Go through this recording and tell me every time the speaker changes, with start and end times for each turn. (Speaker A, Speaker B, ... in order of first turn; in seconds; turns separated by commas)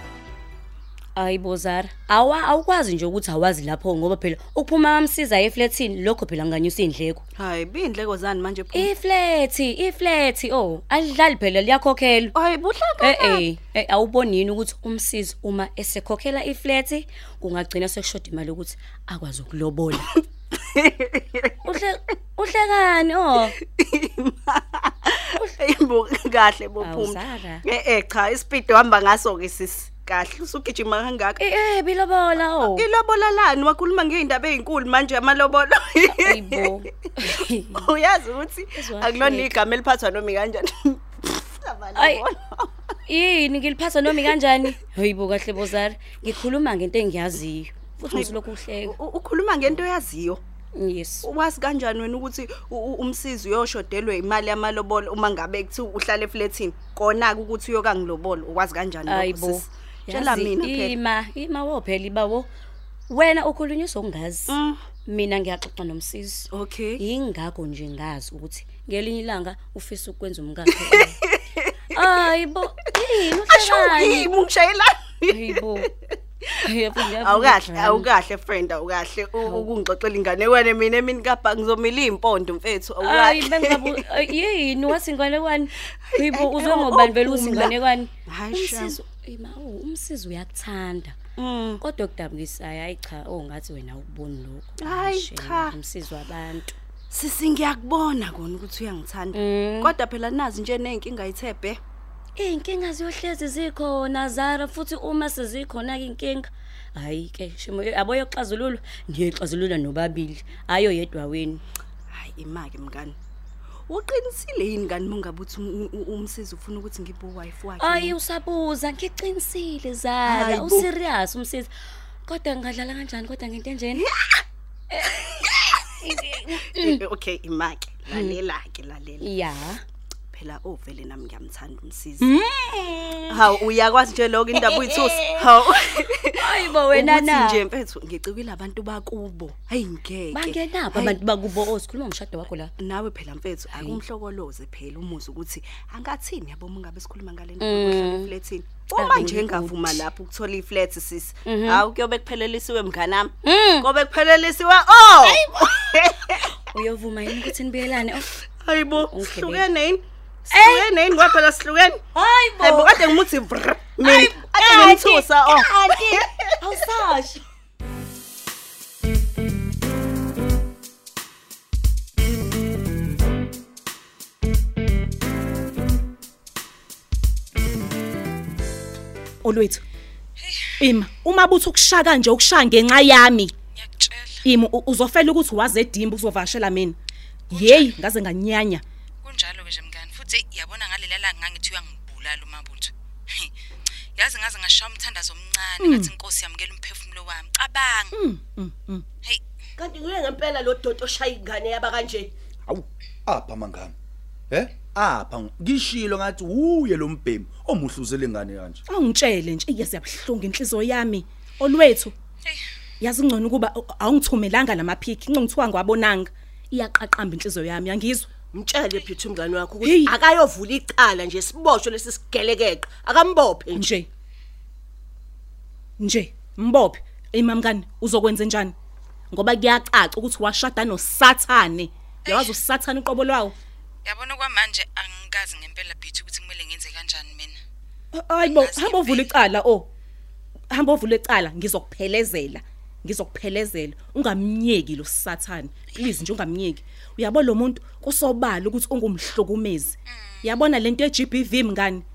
Speaker A: 1.1-7.2, Speaker B: 7.4-8.9, Speaker A: 8.7-12.3, Speaker B: 12.3-13.4, Speaker A: 13.0-20.1, Speaker B: 20.7-21.5, Speaker A: 21.6-23.5, Speaker B: 23.5-31.4, Speaker A: 26.8-27.6, Speaker A: 31.4-32.9, Speaker B: 32.7-36.7, Speaker A: 36.1-37.9, Speaker B: 37.3-42.7, Speaker A: 38.8-39.5, Speaker A: 42.0-42.2, Speaker A: 43.1-48.9, Speaker B: 48.1-50.4, Speaker A: 50.8-51.3, Speaker B: 51.2-61.0, Speaker A: 59.1-62.5, Speaker A: 63.1-64.5, Speaker B: 64.5-64.8, Speaker A: 65.1-66.5, Speaker B: 66.5-67.0, Speaker A: 67.0-71.2, Speaker B: 70.8-72.2, Speaker A: 71.9-74.3, Speaker B: 73.5-75.9, Speaker A: 75.3-75.8, Speaker A: 76.6-78.1, Speaker B: 77.2-84.0, Speaker A: 79.4-79.7, Speaker A: 83.0-91.2, Speaker B: 86.1-89.0, Speaker B: 91.4-91.8, Speaker A: 91.8-96.7, Speaker B: 94.8-95.8, Speaker B: 97.1-101.8, Speaker A: 99.3-99.9, Speaker A: 102.4-111.6, Speaker B: 112.1-113.2, Speaker B: 113.9-118.2, Speaker A: 117.8-121.7, Speaker B: 120.3-120.8, Speaker A: 122.2-124.0, Speaker A: 124.9-127.0, Speaker B: 126.6-129.3, Speaker A: 128.1-128.4, Speaker A: 129.2-129.8, Speaker B: 130.3-132.3, Speaker C: 132.2-133.6, Speaker B: 133.3-141.2, Speaker A: 134.5-135.4, Speaker A: 136.4-137.6, Speaker A: 140.3-142.7, Speaker B: 142.8-156.5, Speaker A: 143.8-144.0, Speaker A: 147.6-148.3, Speaker A: 148.9-150.0, Speaker A: 151.4-151.8, Speaker A: 153.4-153.8, Speaker A: 155.2-155.5, Speaker A: 156.7-158.3, Speaker B: 158.6-162.0, Speaker A: 158.9-159.7, Speaker A: 160.5-161.3, Speaker A: 162.2-163.2, Speaker B: 162.6-166.3, Speaker A: 164.0-166.1, Speaker A: 166.6-167.4, Speaker C: 179.4-179.8, Speaker D: 180.4-180.9, Speaker C: 180.8-183.5, Speaker D: 183.7-184.5, Speaker C: 184.4-187.0, Speaker D: 187.5-188.0, Speaker C: 187.5-188.8, Speaker D: 189.2-193.5, Speaker D: 194.2-198.1, Speaker C: 195.8-196.1, Speaker C: 198.1-199.0, Speaker E: 199.8-202.3, Speaker F: 202.7-203.9, Speaker F: 204.5-208.8, Speaker C: 208.9-212.1, Speaker C: 213.0-218.3, Speaker E: 218.5-223.8, Speaker C: 219.8-220.2, Speaker C: 223.7-224.1, Speaker C: 226.0-228.7, Speaker C: 229.3-233.6, Speaker D: 232.2-232.6, Speaker D: 234.0-237.6, Speaker C: 238.1-239.9, Speaker D: 238.4-239.3, Speaker C: 240.7-252.0, Speaker D: 250.1-250.6